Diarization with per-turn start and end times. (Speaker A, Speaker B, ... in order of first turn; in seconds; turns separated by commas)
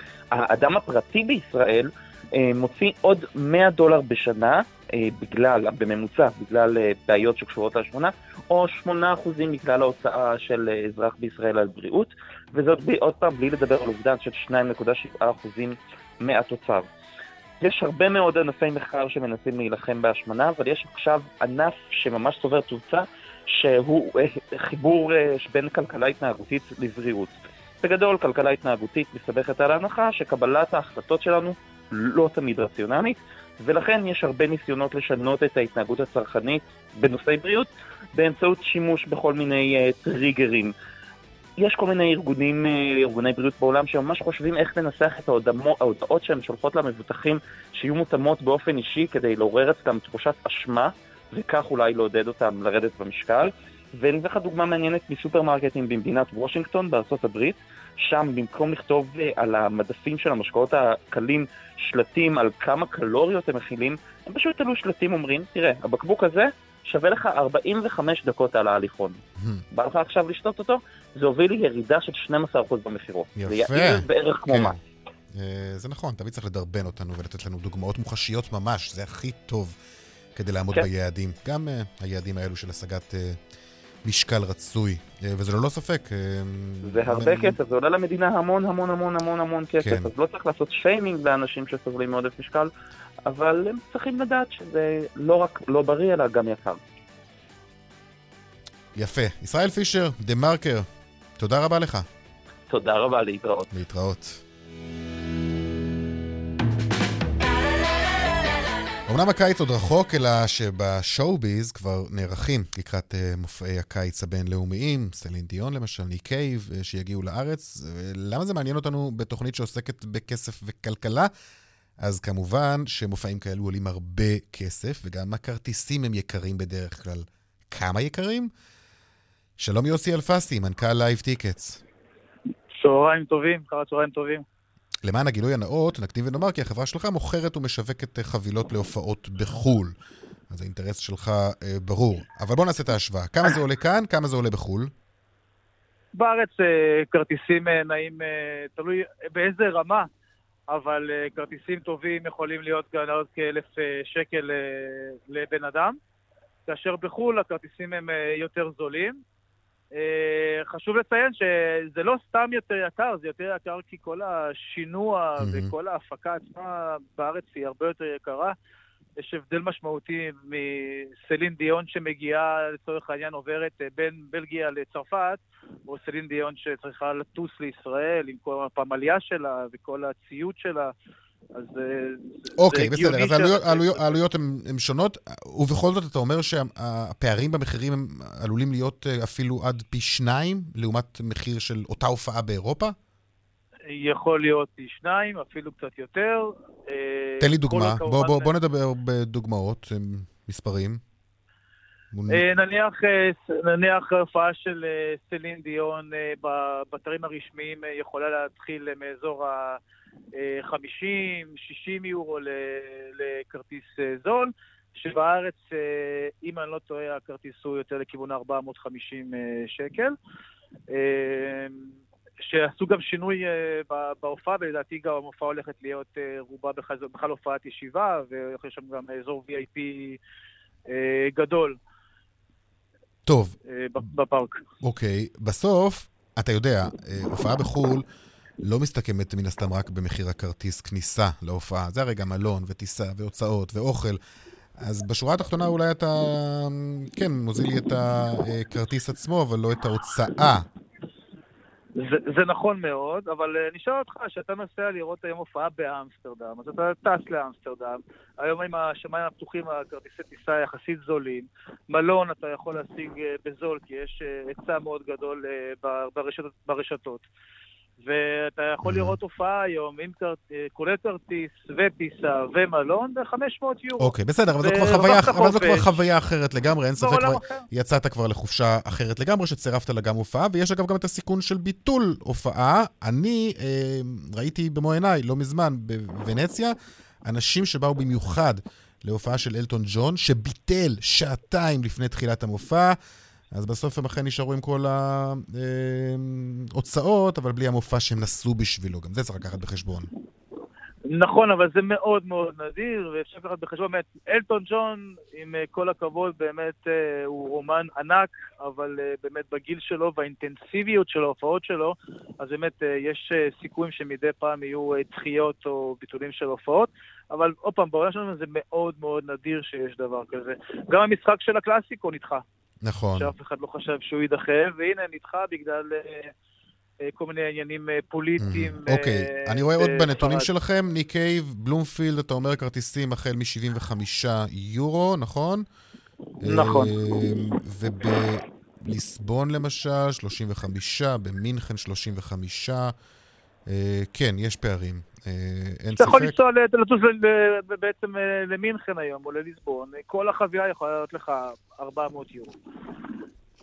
Speaker A: 0.3-16.9, Speaker A: 17.6-40.7, Speaker A: 41.6-69.2, Speaker B: 69.4-69.6, Speaker A: 69.7-74.8, Speaker B: 73.3-74.8, Speaker B: 75.3-79.8, Speaker B: 80.3-83.4, Speaker B: 84.0-87.6, Speaker A: 86.8-92.7, Speaker B: 89.8-90.1, Speaker A: 93.3-96.8, Speaker B: 99.0-102.0, Speaker A: 102.7-103.7, Speaker B: 103.7-104.4, Speaker B: 109.1-121.3, Speaker B: 122.0-128.5, Speaker B: 129.6-131.8, Speaker C: 132.8-134.4, Speaker B: 135.0-139.9, Speaker B: 140.5-144.9, Speaker C: 146.1-150.1, Speaker C: 150.7-156.0, Speaker C: 156.7-159.2, Speaker C: 159.9-168.5, Speaker B: 165.4-165.7, Speaker C: 169.2-180.9, Speaker C: 181.6-184.2, Speaker B: 182.6-192.9, Speaker C: 193.9-198.5, Speaker B: 197.4-201.0, Speaker B: 202.1-202.5, Speaker C: 202.3-209.8, Speaker C: 210.4-220.1, Speaker C: 220.9-221.7, Speaker C: 222.4-230.2, Speaker C: 230.9-231.8, Speaker B: 233.2-233.6, Speaker C: 233.7-234.6, Speaker B: 234.8-238.0, Speaker B: 238.6-244.2, Speaker B: 244.8-250.7, Speaker C: 252.0-267.2, Speaker C: 268.0-275.9, Speaker B: 268.8-269.2, Speaker B: 274.0-286.7, Speaker C: 277.0-277.6, Speaker B: 287.2-293.0, Speaker B: 293.5-300.1, Speaker C: 301.1-322.4, Speaker B: 322.8-323.3, Speaker C: 323.1-326.3, Speaker C: 327.0-330.5, Speaker B: 328.4-335.6, Speaker B: 336.4-342.9, Speaker C: 336.4-336.9, Speaker B: 343.7-346.4, Speaker C: 346.0-352.6